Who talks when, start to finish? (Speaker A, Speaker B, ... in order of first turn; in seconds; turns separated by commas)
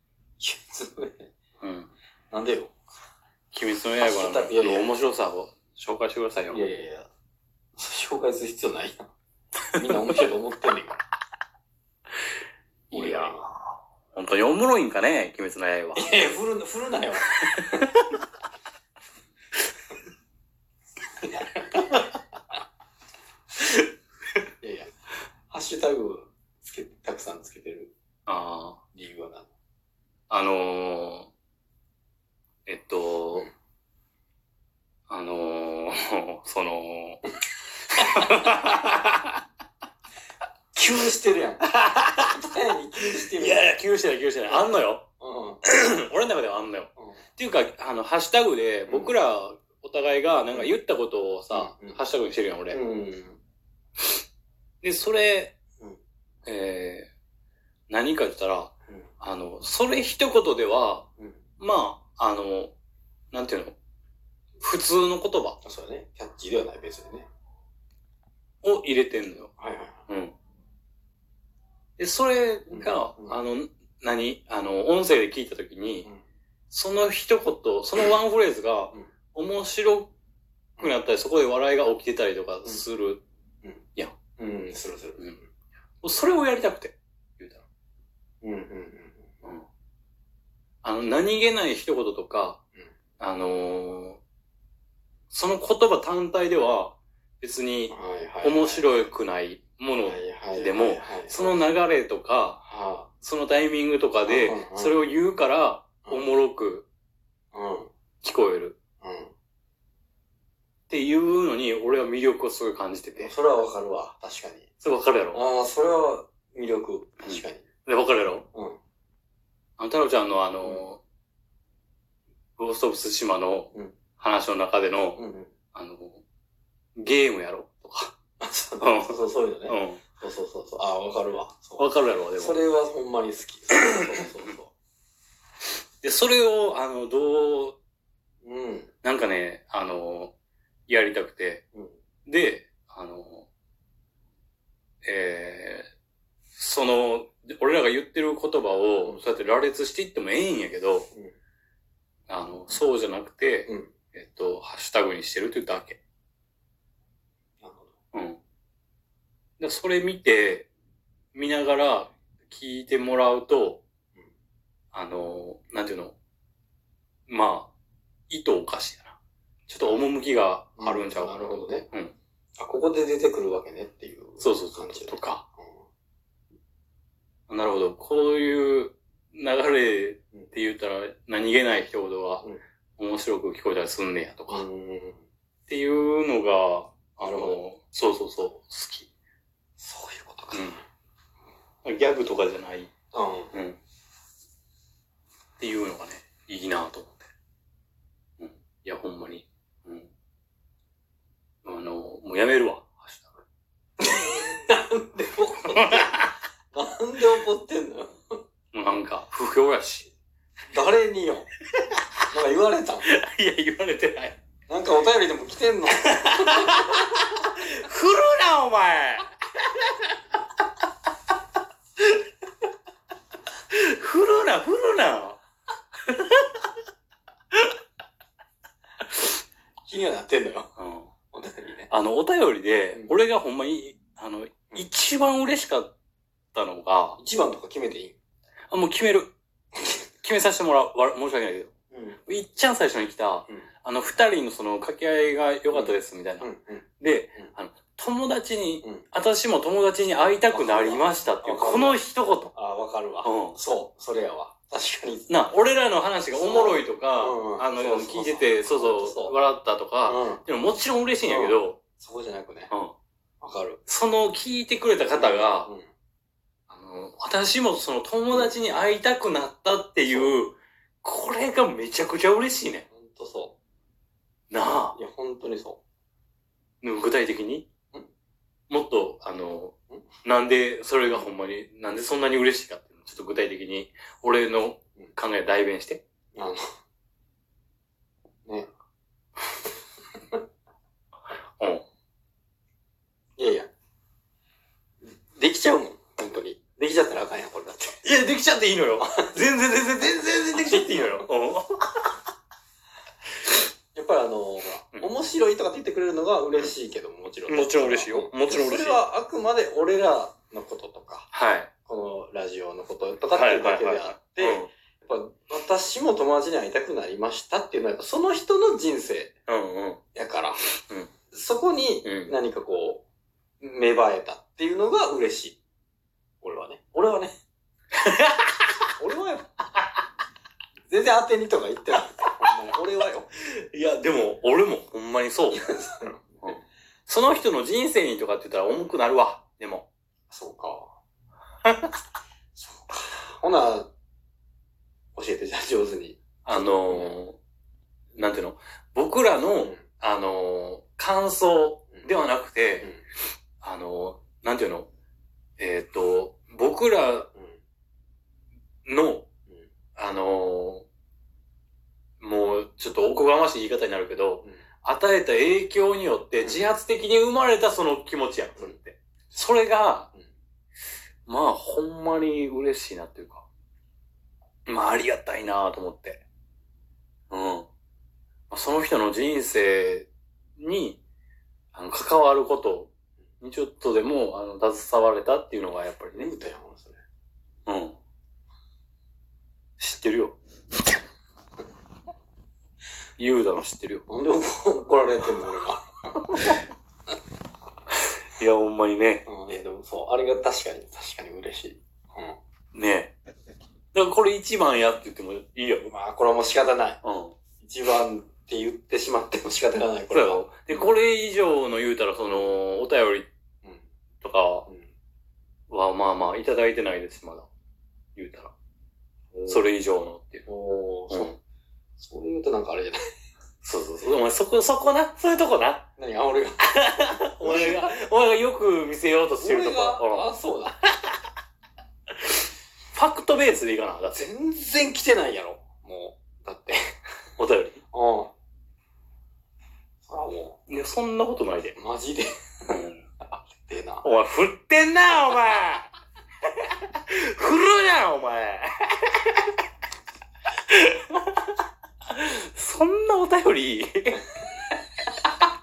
Speaker A: 0.4-1.3, Speaker B: 1.6-1.9, Speaker A: 2.3-2.7, Speaker B: 3.5-6.6, Speaker A: 4.0-4.9, Speaker A: 6.5-7.1, Speaker A: 7.8-9.1, Speaker A: 9.7-11.0, Speaker B: 12.9-13.6, Speaker A: 12.9-13.4, Speaker B: 14.1-16.1, Speaker A: 15.9-17.3, Speaker B: 17.4-18.0, Speaker A: 21.2-22.0, Speaker A: 24.6-24.9, Speaker A: 25.5-27.9, Speaker B: 28.3-28.8, Speaker A: 28.9-29.5, Speaker B: 30.3-31.3, Speaker B: 32.7-33.5, Speaker B: 35.1-37.2, Speaker B: 38.0-39.3, Speaker A: 40.7-41.7, Speaker B: 41.8-42.3, Speaker A: 42.2-43.7, Speaker B: 43.1-45.1, Speaker A: 45.2-45.6, Speaker B: 45.6-52.8, Speaker A: 48.9-49.2, Speaker A: 51.5-52.0, Speaker A: 52.7-53.4, Speaker B: 54.8-55.6, Speaker B: 56.5-57.1, Speaker B: 57.9-61.1, Speaker B: 61.6-62.7, Speaker B: 63.3-63.8, Speaker B: 64.6-65.6, Speaker A: 65.6-67.3, Speaker B: 68.6-69.5, Speaker A: 69.6-70.0, Speaker B: 70.1-70.3, Speaker B: 72.0-76.1, Speaker A: 72.7-73.4, Speaker B: 76.7-80.1, Speaker B: 80.8-83.2, Speaker A: 84.4-85.4, Speaker B: 86.0-87.6, Speaker A: 88.4-89.3, Speaker B: 90.8-92.6, Speaker B: 93.2-94.2, Speaker B: 95.3-102.6, Speaker A: 97.9-99.1, Speaker A: 100.0-101.6, Speaker A: 102.7-103.1, Speaker B: 103.2-106.9, Speaker A: 104.2-104.9, Speaker A: 107.5-107.9, Speaker B: 108.2-108.8, Speaker A: 109.0-109.3, Speaker B: 110.9-113.3, Speaker A: 113.2-114.7, Speaker B: 114.8-115.4, Speaker A: 115.3-117.6, Speaker B: 117.2-118.5, Speaker B: 119.8-121.0, Speaker B: 122.6-125.2, Speaker A: 125.2-125.5, Speaker B: 125.7-126.2, Speaker B: 127.0-128.1, Speaker A: 128.4-134.7, Speaker B: 128.8-129.2, Speaker B: 129.7-130.0, Speaker B: 131.8-132.6, Speaker B: 136.0-137.8, Speaker A: 138.4-138.9, Speaker B: 139.0-140.3, Speaker B: 140.9-141.6, Speaker B: 142.2-143.5, Speaker B: 145.0-145.9, Speaker B: 146.6-151.1, Speaker B: 152.3-156.0, Speaker A: 153.7-153.9, Speaker A: 157.6-157.9, Speaker B: 158.1-158.4, Speaker B: 159.6-160.7, Speaker B: 161.3-163.8, Speaker B: 164.9-166.2, Speaker B: 167.3-167.7, Speaker B: 168.3-172.1, Speaker A: 170.8-171.8, Speaker A: 172.6-175.8, Speaker B: 174.4-175.4, Speaker B: 177.5-182.4, Speaker B: 183.0-184.7, Speaker A: 184.5-185.2, Speaker B: 185.7-189.1, Speaker A: 187.2-187.6, Speaker A: 189.8-190.8, Speaker B: 190.5-190.8, Speaker B: 191.8-192.9, Speaker A: 193.1-193.5, Speaker B: 193.5-193.8, Speaker B: 195.6-197.2, Speaker B: 198.4-200.1, Speaker B: 201.6-203.4, Speaker A: 204.0-206.2, Speaker B: 205.7-206.3, Speaker A: 206.7-208.3, Speaker B: 208.7-210.1, Speaker A: 210.7-211.5, Speaker A: 212.3-213.1, Speaker B: 213.0-214.4, Speaker A: 214.7-216.9, Speaker B: 215.9-219.8, Speaker B: 223.7-225.4, Speaker B: 226.1-226.7, Speaker A: 229.8-230.7, Speaker B: 230.8-231.1, Speaker A: 231.3-231.9, Speaker B: 231.9-235.9, Speaker B: 236.5-237.2, Speaker A: 237.2-238.2, Speaker B: 238.7-239.3, Speaker B: 240.2-241.7, Speaker A: 241.9-242.2, Speaker B: 242.2-246.5, Speaker A: 245.7-246.8, Speaker B: 247.0-252.5, Speaker A: 250.5-252.0, Speaker A: 252.5-255.3, Speaker B: 253.2-253.6, Speaker B: 255.3-261.8, Speaker A: 256.3-259.4, Speaker A: 260.1-260.4, Speaker A: 261.2-262.7, Speaker B: 262.7-262.9, Speaker A: 263.4-263.8, Speaker B: 263.9-265.7, Speaker A: 265.1-265.9, Speaker B: 266.7-272.9, Speaker A: 268.3-268.7, Speaker A: 270.1-270.4, Speaker A: 272.9-273.6, Speaker B: 274.5-275.0, Speaker A: 274.9-275.8, Speaker B: 276.8-277.7, Speaker B: 278.7-286.0, Speaker A: 286.3-286.6, Speaker B: 291.6-291.8, Speaker A: 293.4-293.7, Speaker A: 295.3-298.0, Speaker B: 298.0-302.1, Speaker A: 299.0-299.4, Speaker A: 300.5-301.3, Speaker A: 303.9-311.3, Speaker B: 307.5-309.0, Speaker B: 311.3-311.7, Speaker A: 311.9-319.3, Speaker B: 313.3-314.7, Speaker B: 319.5-320.0, Speaker A: 320.1-320.6, Speaker B: 320.9-321.1, Speaker A: 321.3-323.0, Speaker B: 322.0-322.4, Speaker A: 323.6-325.6, Speaker A: 326.4-327.3, Speaker B: 328.0-328.7, Speaker A: 329.0-329.5, Speaker A: 330.9-333.3, Speaker B: 333.5-335.6, Speaker A: 335.5-336.2, Speaker B: 336.4-339.9, Speaker A: 340.3-340.9, Speaker B: 341.6-341.9, Speaker A: 342.6-343.9, Speaker A: 345.1-347.2, Speaker B: 346.4-347.4, Speaker B: 348.2-352.9, Speaker B: 353.6-354.9, Speaker B: 355.6-357.3, Speaker B: 358.9-359.3, Speaker B: 360.0-360.9, Speaker B: 362.2-370.1, Speaker B: 371.3-373.5, Speaker B: 374.7-376.2, Speaker B: 377.3-377.7, Speaker B: 378.5-381.0, Speaker B: 381.7-386.3, Speaker A: 386.1-387.0, Speaker B: 387.7-388.0, Speaker B: 389.8-390.4, Speaker B: 393.2-394.1, Speaker A: 394.1-396.6, Speaker B: 398.3-399.3, Speaker A: 399.2-402.4, Speaker B: 402.7-403.1, Speaker B: 403.9-405.9, Speaker A: 405.8-407.0, Speaker B: 407.0-407.4, Speaker A: 407.6-410.9, Speaker B: 410.1-413.3, Speaker B: 414.2-414.7, Speaker B: 415.7-417.5, Speaker B: 418.2-418.5, Speaker A: 419.3-419.6, Speaker B: 419.5-420.5, Speaker A: 420.5-421.3, Speaker B: 421.1-421.4, Speaker A: 422.0-423.0, Speaker B: 423.6-425.9, Speaker A: 426.0-426.7, Speaker B: 426.6-430.3, Speaker A: 427.4-427.9, Speaker A: 429.4-430.8, Speaker B: 432.9-434.2, Speaker A: 434.1-436.9, Speaker B: 437.4-437.8, Speaker A: 437.9-438.3, Speaker A: 440.1-440.6, Speaker B: 440.7-441.8, Speaker A: 441.8-444.1, Speaker B: 442.7-443.0, Speaker B: 444.0-445.9, Speaker B: 446.6-449.5, Speaker B: 450.7-451.5, Speaker B: 452.1-454.3